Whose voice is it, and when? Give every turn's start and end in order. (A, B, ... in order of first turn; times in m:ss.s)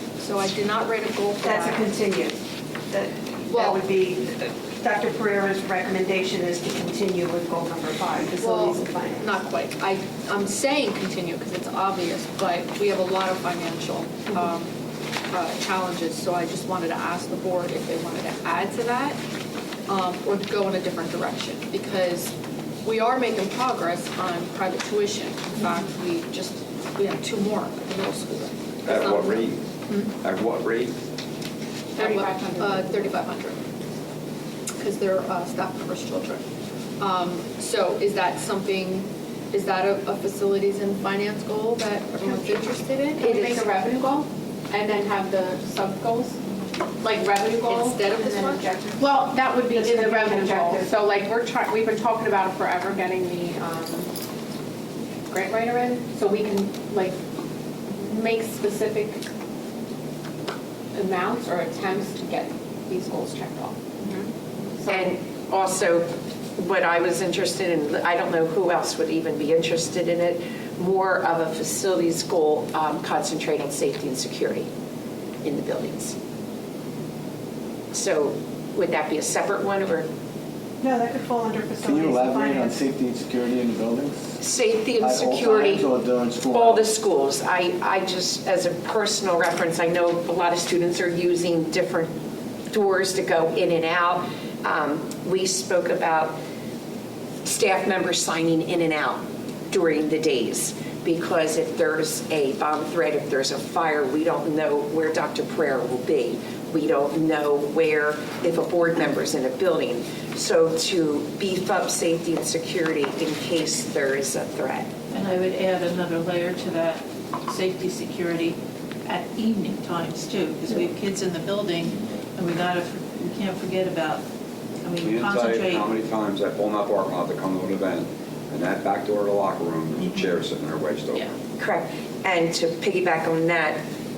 0:00.2-0:01.8 A
0:01.4-0:09.4 B
0:03.5-0:03.8 A
0:08.4-0:14.7 A
0:15.3-0:19.2 A
0:19.9-0:22.3 A
0:22.8-0:30.1 A
0:28.8-0:30.9 C
0:32.0-0:33.6 A
0:32.0-0:33.1 D
0:34.8-0:36.4 A
0:37.0-0:43.9 A
0:43.2-0:46.4 D
0:47.0-0:48.0 D
0:47.6-0:48.7 A
0:48.1-0:51.0 B
0:49.0-0:54.1 D
0:55.3-0:57.1 D
0:58.0-0:59.2 D
1:01.0-1:03.8 D
1:04.9-1:14.7 E
1:15.4-1:16.2 E
1:17.9-1:20.1 E
1:20.8-1:22.8 B
1:21.8-1:24.4 F
1:24.4-1:25.9 E
1:25.0-1:26.9 F
1:26.5-1:32.1 E
1:32.7-1:36.4 E
1:37.4-1:54.9 E
1:55.1-2:04.2 G
2:04.8-2:05.9 G
2:05.0-2:11.2 C
2:11.6-2:13.8 E